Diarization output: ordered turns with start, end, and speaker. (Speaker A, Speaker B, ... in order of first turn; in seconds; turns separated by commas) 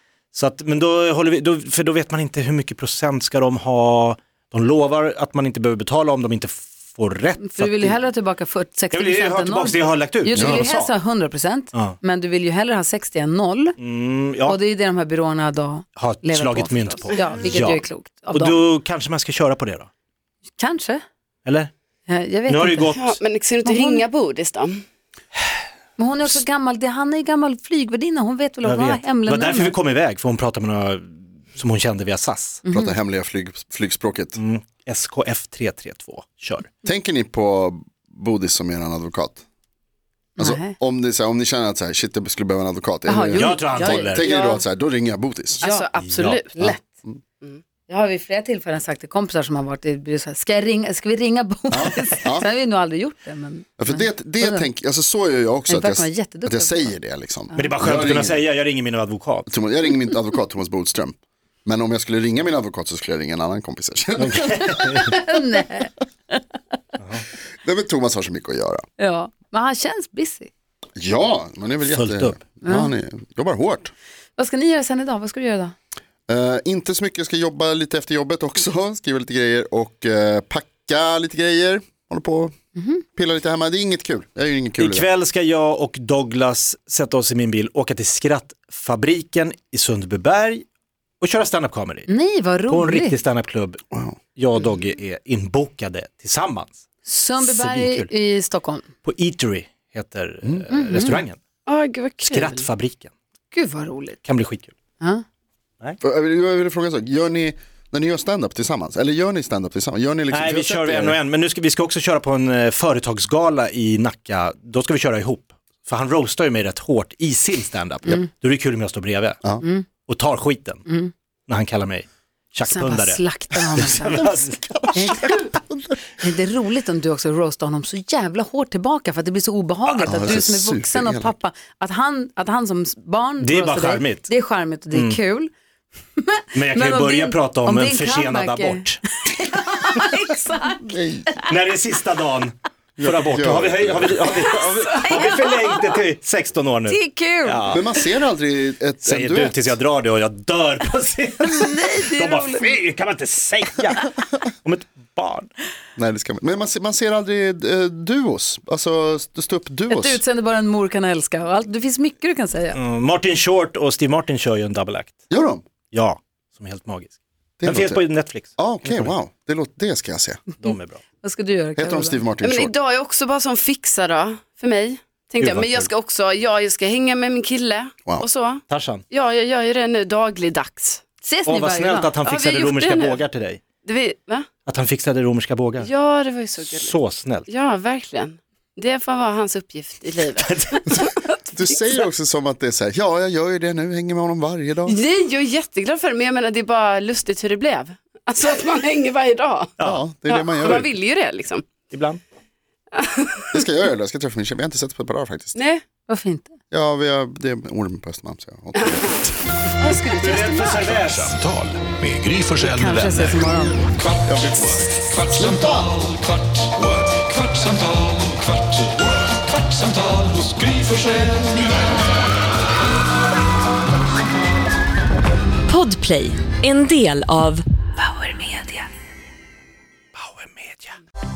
Speaker A: 0.3-8.0, Speaker B: 7.4-13.8, Speaker A: 8.9-10.9, Speaker C: 10.3-10.7, Speaker A: 13.8-14.6, Speaker B: 14.4-18.6, Speaker A: 15.9-19.9, Speaker B: 20.6-21.0, Speaker A: 21.4-21.7, Speaker B: 22.1-23.0, Speaker A: 22.5-23.2, Speaker D: 22.9-24.8, Speaker B: 23.6-24.0, Speaker B: 26.0-29.8, Speaker A: 28.6-32.6, Speaker B: 32.6-32.9, Speaker C: 32.7-34.4, Speaker A: 34.4-36.7, Speaker C: 36.8-39.4, Speaker B: 40.4-40.8, Speaker C: 40.4-45.6, Speaker B: 43.0-44.1, Speaker A: 43.3-44.2, Speaker D: 44.1-44.6, Speaker D: 45.6-46.8, Speaker B: 45.6-45.9, Speaker A: 46.0-46.4, Speaker C: 46.6-47.2, Speaker B: 47.9-54.7, Speaker C: 51.7-52.5, Speaker C: 53.8-58.4, Speaker B: 55.7-56.9, Speaker B: 57.5-57.8, Speaker A: 57.5-59.5, Speaker C: 59.5-65.1, Speaker A: 64.2-65.2, Speaker B: 64.8-66.4, Speaker C: 67.6-68.8, Speaker B: 69.0-70.5, Speaker C: 71.0-73.9, Speaker A: 71.8-72.4, Speaker B: 72.6-72.9, Speaker B: 74.3-75.7, Speaker C: 76.3-82.5, Speaker B: 82.8-83.0, Speaker C: 83.1-85.1, Speaker A: 84.8-90.7, Speaker A: 91.2-92.1, Speaker B: 92.1-93.2, Speaker A: 92.7-93.8, Speaker A: 94.3-96.8, Speaker B: 97.0-98.9, Speaker A: 97.4-98.1, Speaker A: 99.0-101.4, Speaker B: 100.7-101.2, Speaker D: 101.7-102.7, Speaker A: 102.2-103.1, Speaker B: 103.5-104.2, Speaker A: 104.2-104.7, Speaker C: 106.0-111.2, Speaker A: 110.3-119.4, Speaker A: 120.0-120.8, Speaker B: 120.8-121.1, Speaker A: 121.5-123.2, Speaker B: 122.6-124.2, Speaker C: 123.7-126.0, Speaker A: 123.8-125.2, Speaker B: 125.0-125.5, Speaker B: 126.2-135.5, Speaker A: 129.8-130.4, Speaker C: 130.1-131.3, Speaker A: 133.4-134.3, Speaker A: 134.9-135.2, Speaker B: 136.2-141.5, Speaker A: 136.5-139.0, Speaker C: 140.9-141.3, Speaker A: 141.5-147.8, Speaker C: 143.0-144.3, Speaker B: 144.9-145.8, Speaker B: 146.9-147.7, Speaker C: 147.7-149.7, Speaker A: 149.0-155.5, Speaker B: 151.5-152.7, Speaker C: 155.9-160.2, Speaker B: 159.9-162.8, Speaker A: 162.7-165.2, Speaker C: 165.3-165.6, Speaker A: 165.9-169.2, Speaker C: 167.6-168.0, Speaker C: 168.6-170.4, Speaker A: 170.6-171.0, Speaker B: 170.6-172.2, Speaker C: 171.8-172.7, Speaker D: 172.4-181.0, Speaker A: 175.4-175.9, Speaker A: 178.7-179.0, Speaker B: 181.2-182.2, Speaker A: 181.5-183.6, Speaker D: 182.2-183.2, Speaker D: 183.8-184.5, Speaker A: 184.7-185.9, Speaker D: 185.8-186.9, Speaker A: 186.6-187.5, Speaker D: 187.5-191.9, Speaker A: 190.3-191.1, Speaker C: 191.5-195.0, Speaker D: 194.9-199.8, Speaker A: 199.8-200.1, Speaker C: 199.8-200.9, Speaker D: 200.3-201.7, Speaker A: 201.9-202.2, Speaker D: 202.9-203.6, Speaker C: 203.5-205.6, Speaker D: 205.5-205.8, Speaker B: 206.1-206.6, Speaker C: 206.7-209.4, Speaker D: 209.8-210.8, Speaker A: 210.0-211.3, Speaker E: 210.7-213.5, Speaker B: 212.7-213.8, Speaker C: 214.2-216.1, Speaker F: 225.7-228.8, Speaker A: 230.1-230.9